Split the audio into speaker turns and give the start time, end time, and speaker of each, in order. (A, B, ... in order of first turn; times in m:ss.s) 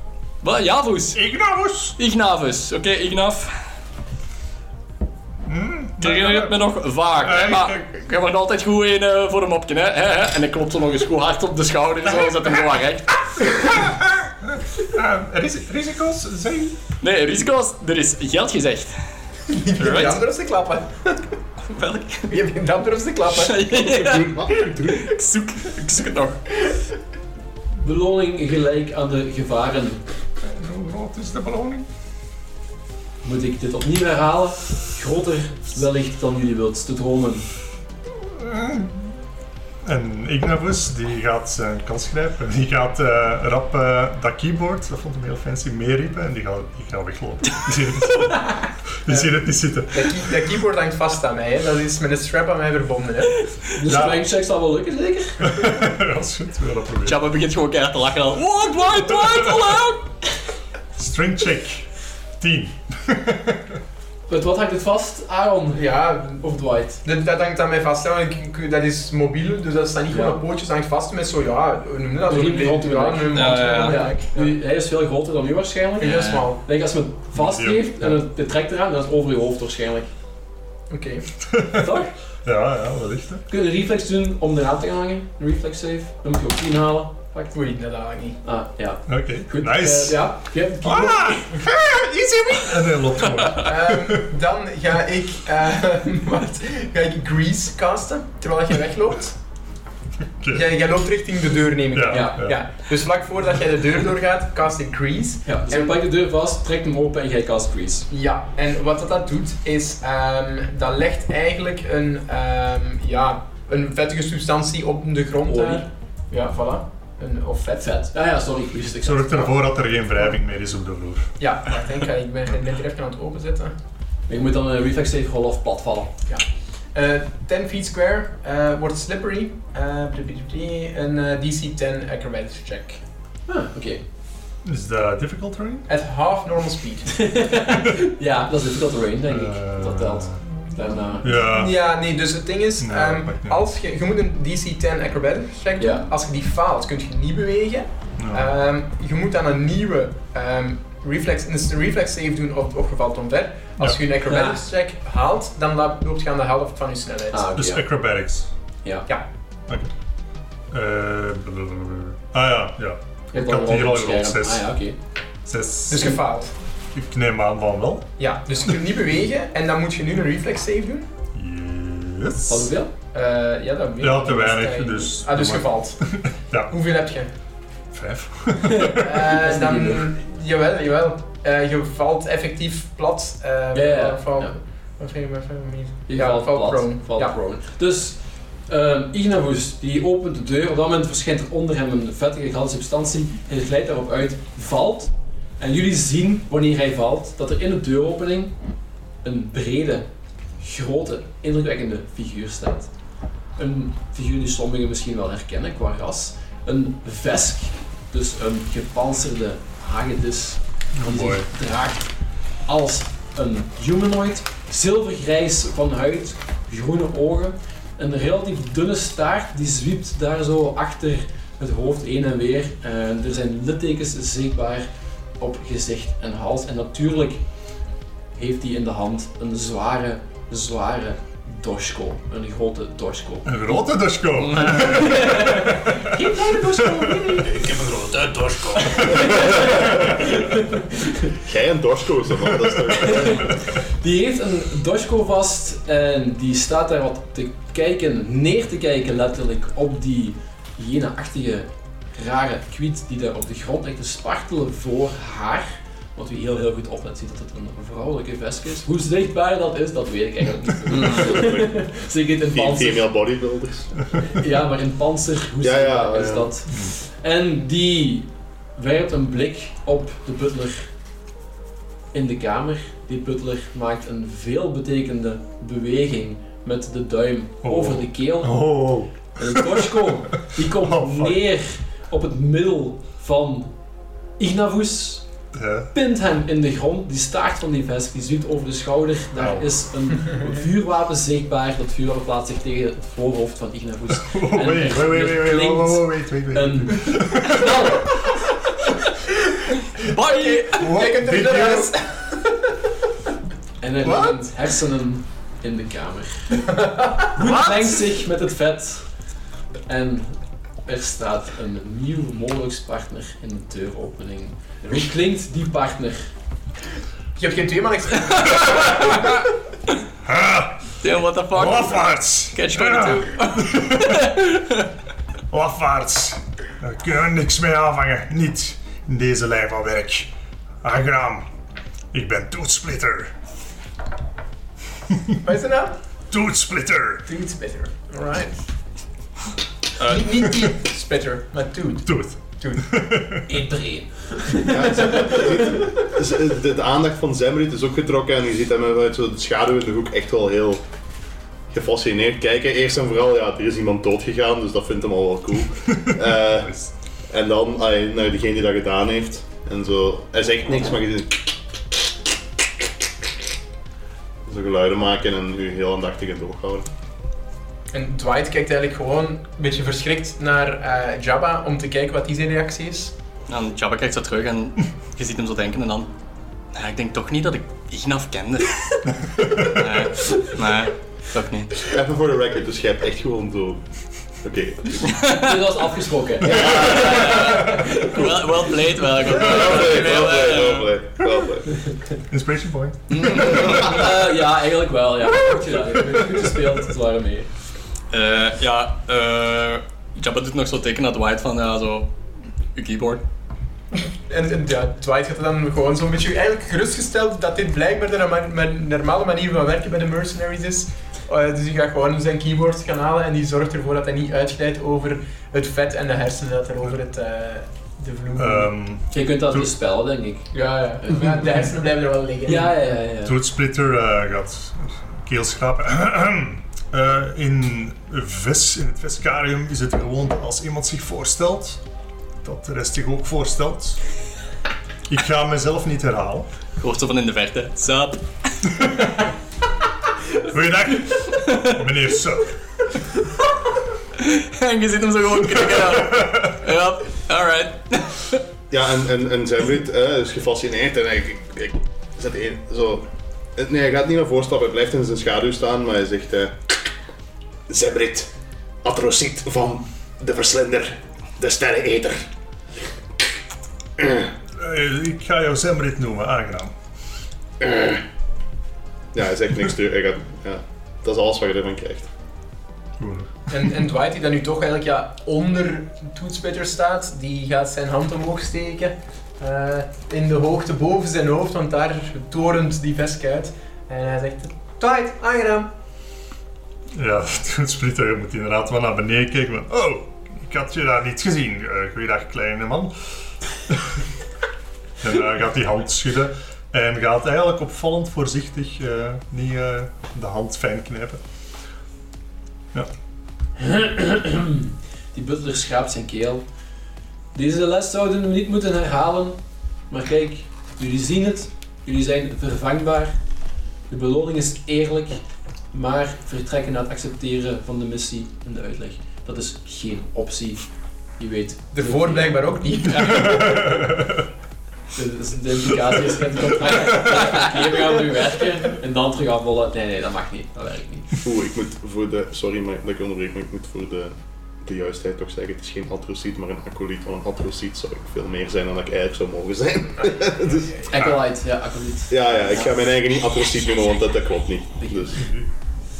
0:00.4-0:01.2 A
0:01.1-0:02.0 B
0:02.0-0:03.6 A
0:05.5-0:06.6 B
0:06.0-0:13.5 A
0:07.2-0:07.8 B
0:13.5-0:16.8 B
0:17.0-0:19.0 A
0:19.5-0:21.2 C
0:19.8-0:20.2 A
0:21.6-0:22.3 A
0:22.3-0:23.9 C
0:23.4-0:26.4 A
0:23.8-0:25.1 D
0:27.8-0:30.0 E
0:30.4-0:31.9 B
0:33.2-0:37.5 E
0:38.4-0:39.1 B
0:39.8-0:50.4 B
0:49.1-0:49.3 C
0:49.9-0:53.5 C
0:53.7-0:55.7 E
0:53.9-0:54.2 B
0:55.4-0:57.2 B
0:57.0-1:00.1 A
0:59.2-0:59.5 B
1:01.0-1:01.9 B
1:02.4-1:03.8 B
1:04.3-1:07.0 E
1:05.7-1:06.4 C
1:07.0-1:14.6 C
1:10.1-1:10.4 E
1:12.3-1:20.1 E
1:13.3-1:14.1 A
1:16.0-1:16.6 C
1:16.1-1:16.4 A
1:17.3-1:18.2 B
1:20.9-1:21.3 C
1:21.5-1:23.4 B
1:21.7-1:22.1 E
1:23.5-1:27.5 E
1:27.5-1:28.4 C
1:28.4-1:31.6 E
1:29.1-1:34.3 B
1:33.6-1:39.4 C
1:40.4-1:40.7 B
1:40.5-1:46.0 C
1:41.9-1:42.7 B
1:42.1-1:42.4 E
1:45.4-1:48.1 E
1:48.1-1:58.0 C
1:55.4-1:55.9 E
1:57.8-1:59.5 E
1:59.0-2:01.3 B
2:01.4-2:03.7 C
2:04.3-2:06.1 E
2:06.3-2:13.0 C
2:13.5-2:14.0 E
2:14.6-2:15.9 B
2:15.9-2:17.3 C
2:17.1-2:21.3 E
2:19.3-2:20.4 B
2:21.2-2:21.8 B
2:21.2-2:37.5 C
2:22.8-2:23.6 B
2:25.8-2:26.1 E
2:28.2-2:28.5 B
2:34.2-2:34.6 E
2:37.3-2:37.9 E
2:37.5-2:38.5 B
2:38.8-2:39.1 E
2:40.7-2:44.7 B
2:43.3-2:45.0 E
2:45.5-2:46.2 B
2:45.9-2:46.5 C
2:46.9-2:48.7 B
2:48.2-2:51.1 C
2:51.3-2:52.7 B
2:52.5-2:52.9 E
2:53.1-2:56.0 C
2:54.0-2:56.7 B
2:56.7-2:57.3 C
2:57.9-2:59.2 B
2:58.6-3:00.1 E
2:59.0-3:07.4 C
3:03.7-3:04.6 E
3:06.1-3:18.5 E
3:19.2-3:20.1 E
3:20.6-3:22.9 E
3:23.6-3:32.1 E
3:31.0-3:31.5 B
3:32.7-3:44.9 E
3:45.4-3:47.4 E
3:48.4-3:53.8 E
3:53.4-3:57.5 B
3:54.4-3:55.3 A
3:54.7-3:57.7 E
3:57.7-3:59.8 D
3:58.8-4:01.4 E
3:59.0-4:00.3 B
4:01.4-4:03.5 D
4:03.0-4:23.1 E
4:21.0-4:21.9 D
4:22.5-4:23.9 D
4:24.3-4:30.9 E
4:25.6-4:26.5 D
4:26.7-4:27.0 B
4:32.1-4:38.6 E
4:37.6-4:41.4 B
4:39.4-4:43.7 E
4:44.4-4:45.3 E
4:45.5-4:45.9 B
4:45.9-4:58.2 E
4:49.4-4:49.7 B
4:54.1-4:58.4 B
5:00.0-5:00.9 A
5:00.2-5:02.8 C
5:00.8-5:01.9 B
5:03.8-5:09.1 E
5:04.0-5:04.4 B
5:06.8-5:07.3 C
5:07.4-5:08.1 A
5:09.9-5:16.3 E
5:17.4-5:19.5 C
5:18.5-5:19.4 A
5:20.2-5:20.9 B
5:21.0-5:22.0 A
5:21.5-5:24.3 B
5:22.5-5:24.9 A
5:25.5-5:30.3 B
5:30.8-5:31.5 B
5:32.1-5:33.3 B
5:35.4-5:36.0 C
5:36.3-5:37.3 B
5:37.3-5:38.6 C
5:40.0-5:42.9 C
5:40.5-5:40.7 B
5:42.1-5:43.5 B
5:43.5-5:45.2 E
5:44.6-5:50.8 D
5:44.9-5:45.5 C
5:51.7-5:56.8 D
5:55.9-5:56.9 B
5:57.3-6:01.6 D
6:04.5-6:06.9 D
6:07.9-6:13.1 C
6:13.5-6:16.1 A
6:16.7-6:21.8 A
6:19.2-6:19.8 B
6:21.9-6:23.8 D
6:24.4-6:25.2 D
6:25.1-6:25.5 A
6:25.3-6:28.3 E
6:26.4-6:27.6 D
6:26.6-6:30.9 A
6:29.3-6:31.7 D
6:32.2-6:34.2 B
6:33.1-6:34.1 A
6:33.2-6:37.5 E
6:36.1-6:36.6 B
6:38.1-6:42.1 A
6:42.8-6:43.2 A
6:44.0-6:58.7 C
6:58.4-6:59.7 B
6:59.1-7:01.4 E
7:00.5-7:02.8 C
7:02.5-7:03.4 E
7:03.2-7:11.8 B
7:12.4-7:14.0 B
7:15.1-7:16.5 B
7:16.8-7:18.6 A
7:18.7-7:19.1 B
7:20.4-7:22.5 B
7:21.4-7:21.7 A
7:24.2-7:28.4 A
7:26.0-7:26.5 B
7:28.7-7:36.9 D
7:37.7-7:38.3 D
7:38.8-7:42.3 D
7:44.0-7:44.3 D
7:44.6-7:46.7 B
7:47.6-7:48.0 D
7:49.1-7:52.1 D
7:53.0-7:53.3 B
7:53.5-8:05.7 C
8:06.9-8:12.9 B
8:13.7-8:14.0 B
8:15.0-8:21.2 B
8:23.6-8:26.4 E
8:27.3-8:29.4 E
8:29.9-8:33.2 E
8:33.9-8:35.2 E
8:35.7-8:43.7 E
8:41.7-8:43.8 C
8:43.4-8:44.2 B
8:44.9-8:51.2 E
8:51.2-9:01.2 D
9:00.0-9:00.9 C
9:00.9-9:02.8 E
9:02.1-9:05.3 D
9:04.8-9:05.3 E
9:05.2-9:05.5 B